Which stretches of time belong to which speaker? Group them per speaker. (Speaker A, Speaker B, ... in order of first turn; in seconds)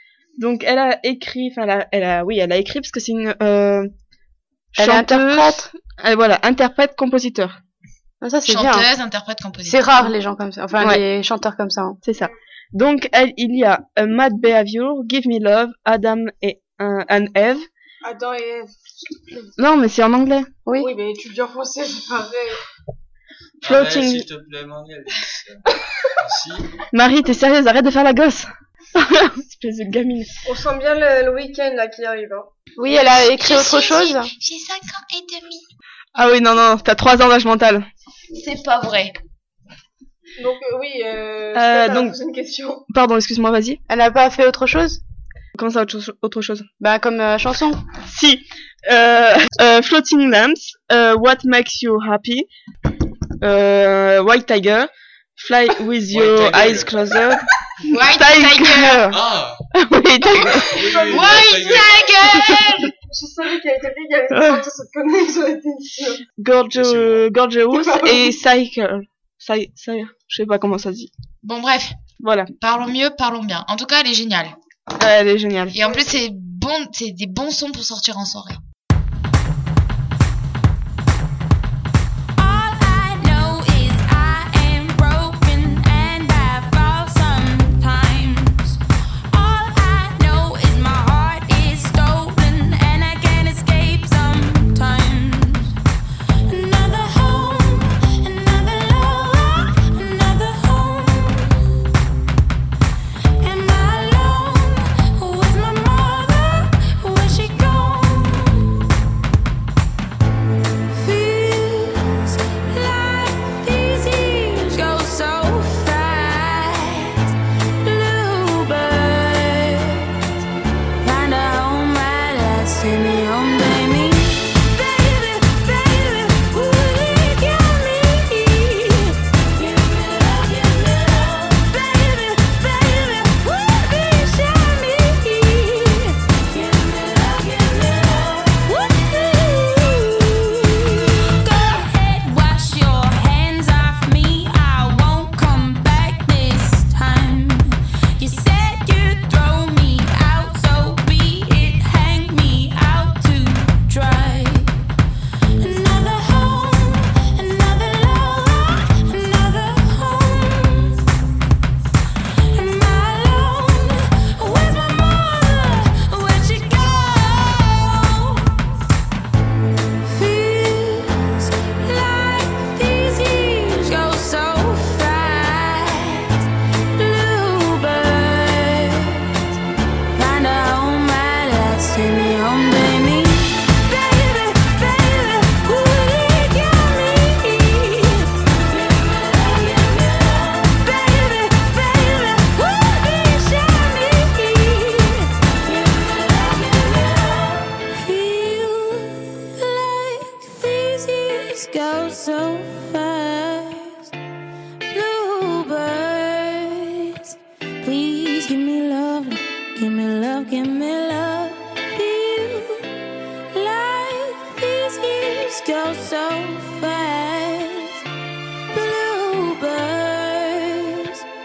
Speaker A: 0.4-3.9, 4.7-7.5, 12.0-17.6, 19.6-20.5, 23.6-24.3, 26.9-30.3, 36.1-37.9, 41.5-42.1, 42.9-43.8, 45.5-46.6, 48.0-52.5, 53.4-59.2, 59.7-60.8, 62.3-62.6, 64.3-64.6, 66.4-71.1, 72.2-72.5, 75.0-75.8
Speaker B: 4.8-5.7, 8.2-8.9, 9.6-12.0, 20.6-20.9, 32.8-34.3, 43.9-45.0, 46.8-47.8
Speaker C: 8.4-10.1, 33.0-35.7, 38.3-39.2, 57.9-59.1, 60.4-62.9, 71.4-72.0, 72.6-74.5, 75.7-78.6
Speaker D: 18.0-18.7, 20.8-22.6, 30.4-32.5, 40.4-42.8, 60.7-66.2, 67.7-68.2
Speaker E: 23.6-25.6, 26.2-26.8, 56.1-57.0, 59.1-59.6, 60.6-62.1, 66.7-67.3
Speaker F: 82.4-95.8, 96.5-101.9, 103.4-108.9, 110.9-120.3, 121.0-154.7, 155.6-161.2, 162.5-168.7, 170.0-179.5, 180.1-188.5, 189.3-195.3, 196.0-204.1, 204.9-212.9, 213.5-218.0, 218.7-221.2